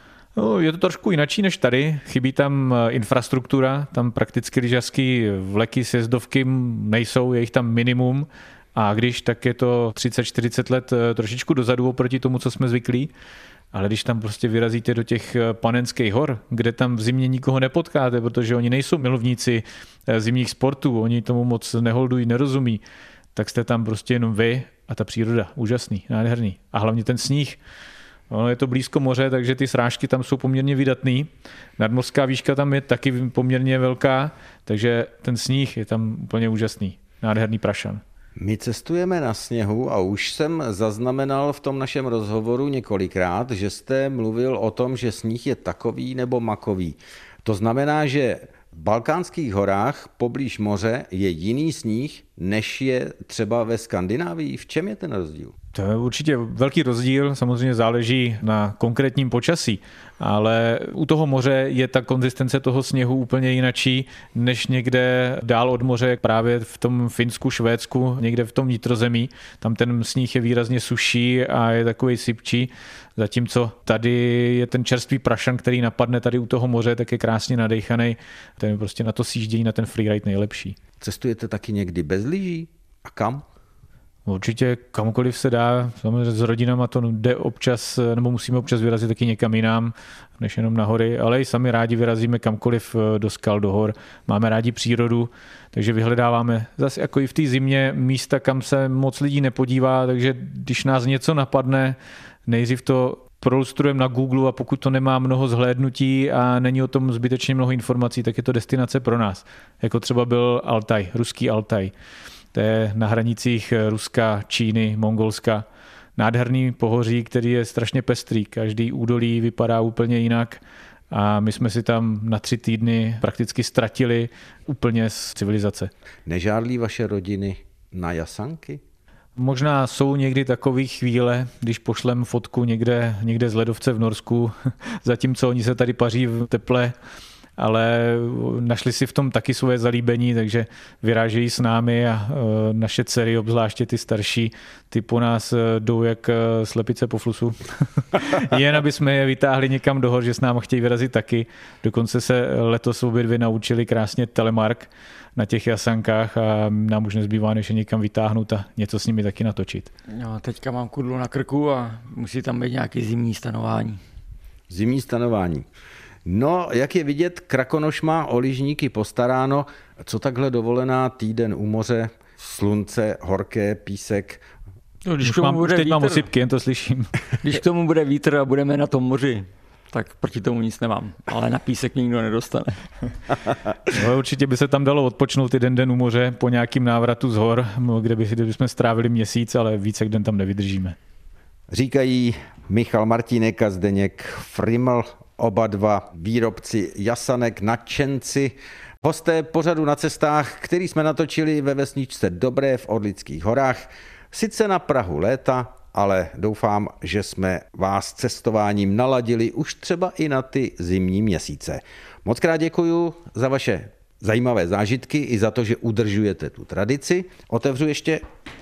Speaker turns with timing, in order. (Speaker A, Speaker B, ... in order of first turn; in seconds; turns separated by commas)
Speaker A: 0.3-13.1, Speaker A: 13.7-22.8, Speaker A: 23.3-27.6, Speaker A: 28.3-38.0, Speaker B: 38.4-55.5, Speaker A: 55.7-80.8, Speaker B: 81.0-83.4, Speaker A: 84.2-111.9, Speaker A: 112.5-115.6, Speaker A: 116.2-125.9, Speaker B: 126.2-128.8, Speaker A: 129.3-136.9, Speaker A: 137.6-159.9, Speaker C: 160.1-164.0, Speaker B: 164.7-165.7, Speaker B: 166.2-174.4, Speaker C: 175.0-176.3, Speaker A: 175.2-177.2, Speaker C: 177.4-182.9, Speaker A: 183.9-190.9, Speaker B: 191.7-218.2